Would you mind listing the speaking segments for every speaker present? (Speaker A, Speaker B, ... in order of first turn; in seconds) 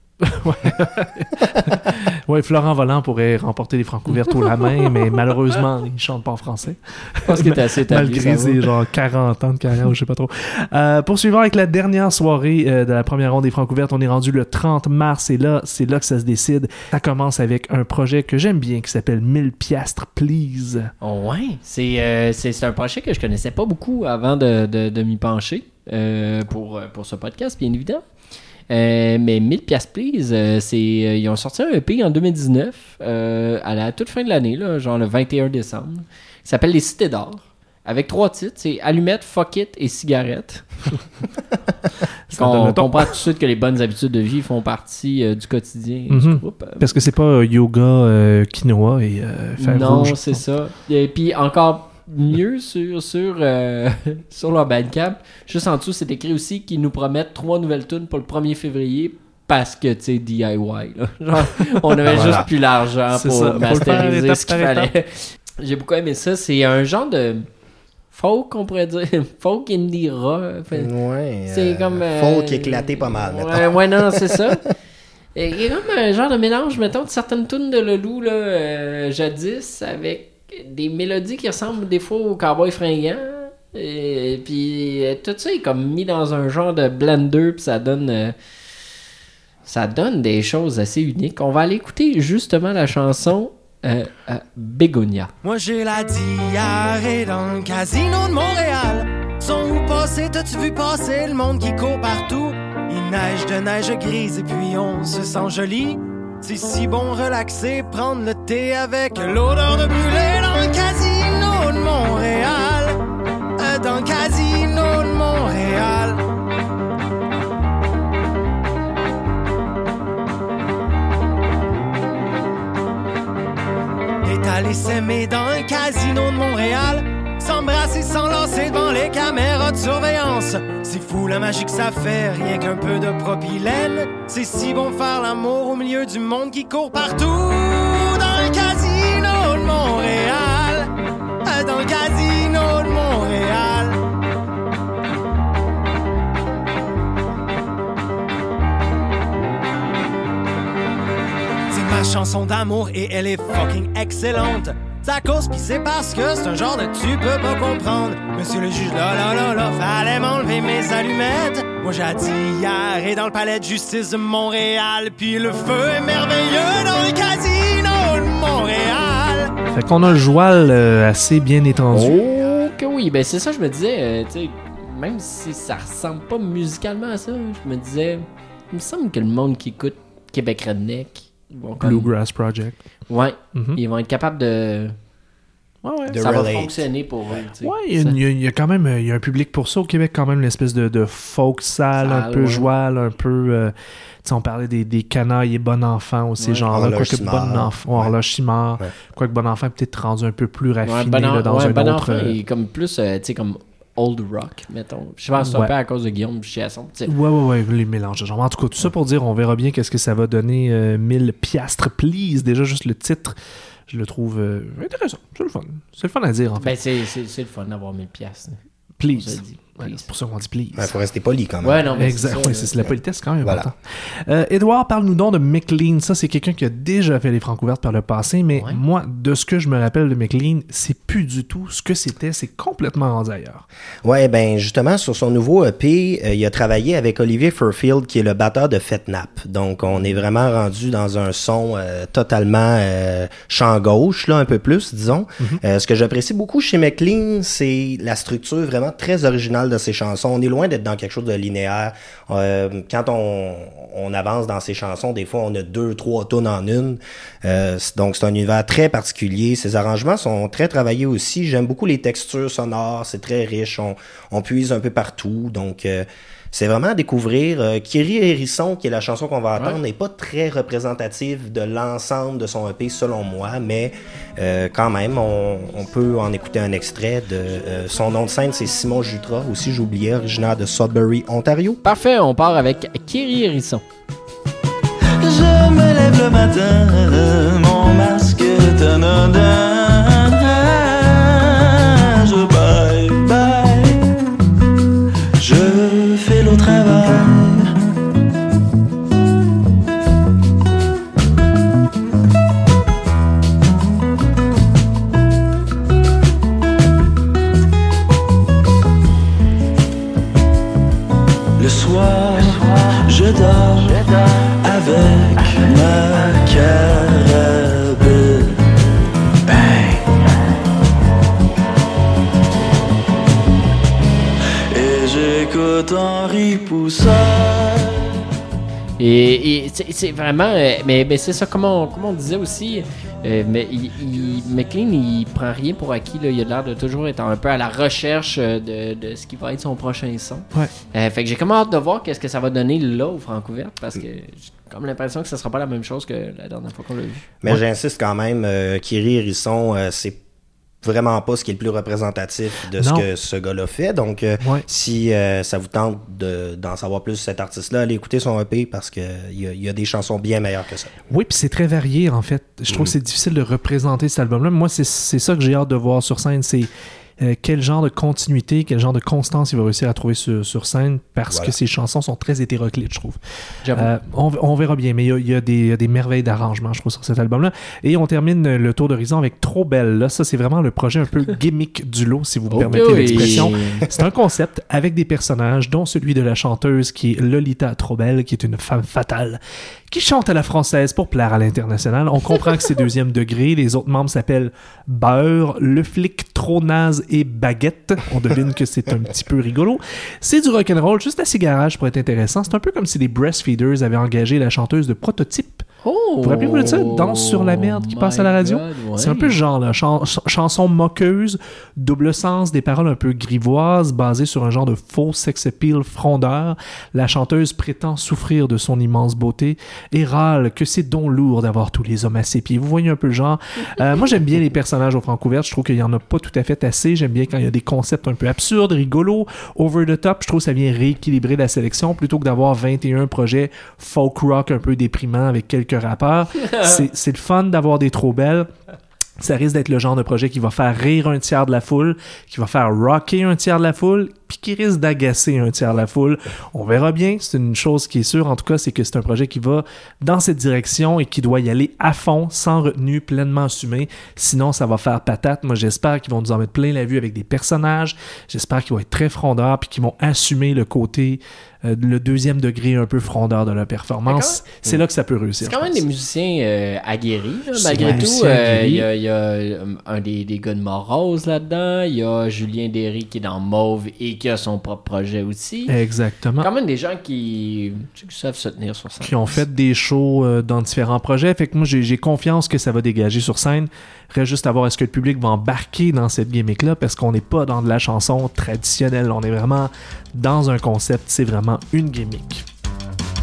Speaker A: 0.2-20.9, 42.3-43.2, 46.1-50.4, 61.8-62.5, 63.1-64.9, 169.7-172.2, 181.8-182.8, 183.5-183.8, 185.8-186.2, 187.6-202.4, 205.4-205.7, 207.1-213.4, 213.9-216.8, 219.0-220.9, 221.9-233.7, 352.8-353.1, 361.1-373.2, 373.7-405.6, 406.2-438.5, 439.2-465.8, 467.6-468.9, 475.7-476.5, 479.0-492.4
Speaker B: 7.3-8.6, 21.0-28.0, 28.7-40.9, 42.4-46.9, 49.6-67.5, 68.1-70.9, 71.5-74.7, 75.3-88.3, 89.7-95.3, 171.9-182.1, 183.1-184.9, 186.2-188.2, 192.0-192.7, 196.4-196.7, 200.8-207.1, 216.6-218.6, 219.1-220.1, 221.6-222.9, 228.6-228.8, 281.8-283.8, 329.0-347.3, 373.6-373.9, 382.5-383.9, 405.8-409.4, 436.4-436.8, 464.1-464.8, 465.4-475.8, 476.4-479.4
Speaker C: 62.1-62.5, 70.7-74.5, 186.1-186.8, 196.7-198.1, 220.8-221.9, 234.0-281.8, 347.4-350.2, 350.8-360.9, 382.6-383.4, 467.8-468.1
Speaker D: 95.4-113.0, 113.6-116.2, 124.2-140.9, 141.4-144.0, 151.7-169.5
Speaker E: 285.2-294.0, 295.4-297.7, 311.6-318.6, 319.4-320.4, 324.7-328.0